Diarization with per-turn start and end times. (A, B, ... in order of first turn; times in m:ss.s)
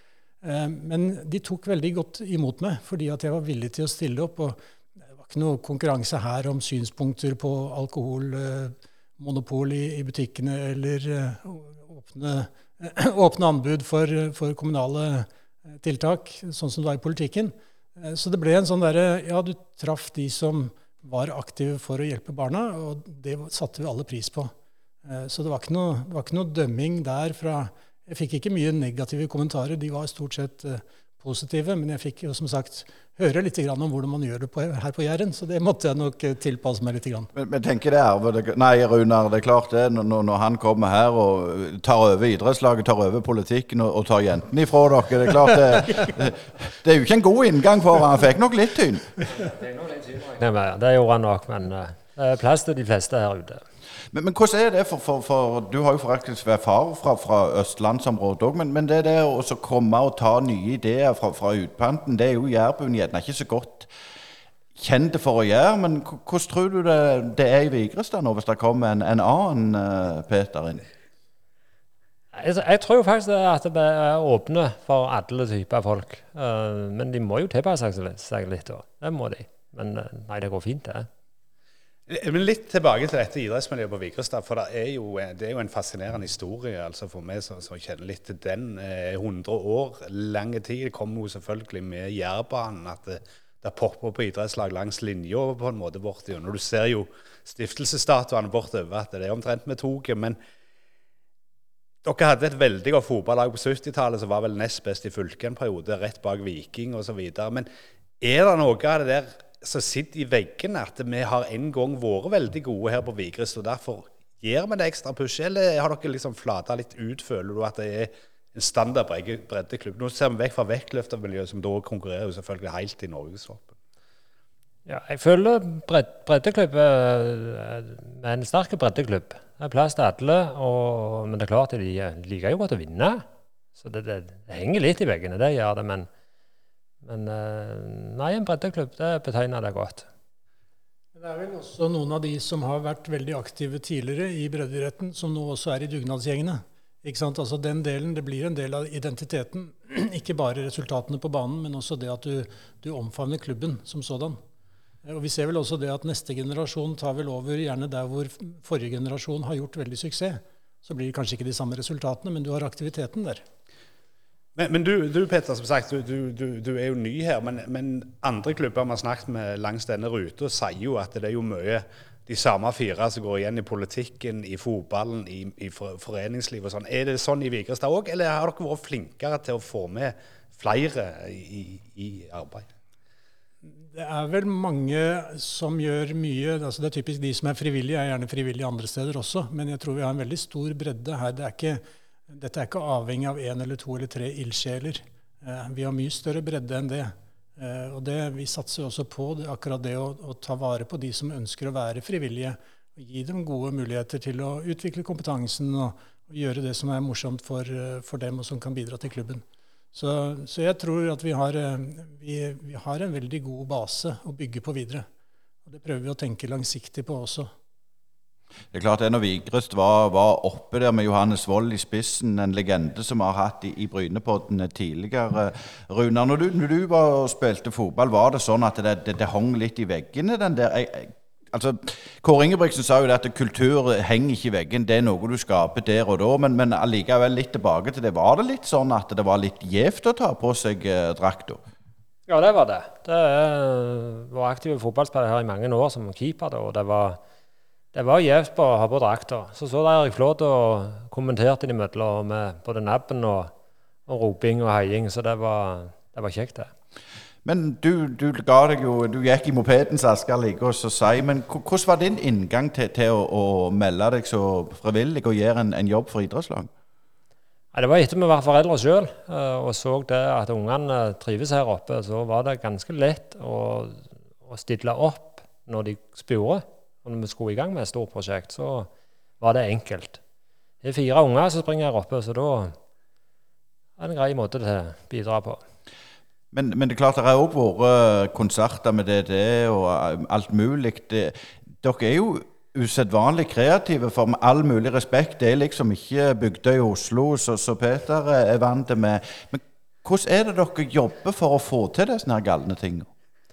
0:00.4-0:04.6 A
0:05.2-0:24.5 A
0:25.0-0:37.3 A
0:37.4-0:49.1 B
0:49.4-0:53.6 C
0:54.1-1:03.9 B
1:04.8-1:10.9 B
1:12.3-1:21.1 C
1:22.1-1:40.4 D
1:42.0-1:47.7 D
1:48.2-2:03.8 D
2:04.9-2:13.2 C
2:13.8-2:16.1 C
2:17.0-2:20.0 C
2:21.1-2:34.4 A
2:35.0-2:43.4 A
2:44.6-3:02.7 D
3:03.8-3:35.0 A
3:35.6-3:37.5 A
3:38.7-4:01.6 B
4:02.3-4:07.2 C
4:07.9-4:13.5 C
4:14.1-4:16.7 C
4:17.4-4:26.7 B
4:27.7-4:40.2 C
4:40.8-4:42.8 C
4:44.0-4:45.6 C
4:46.5-5:03.1 B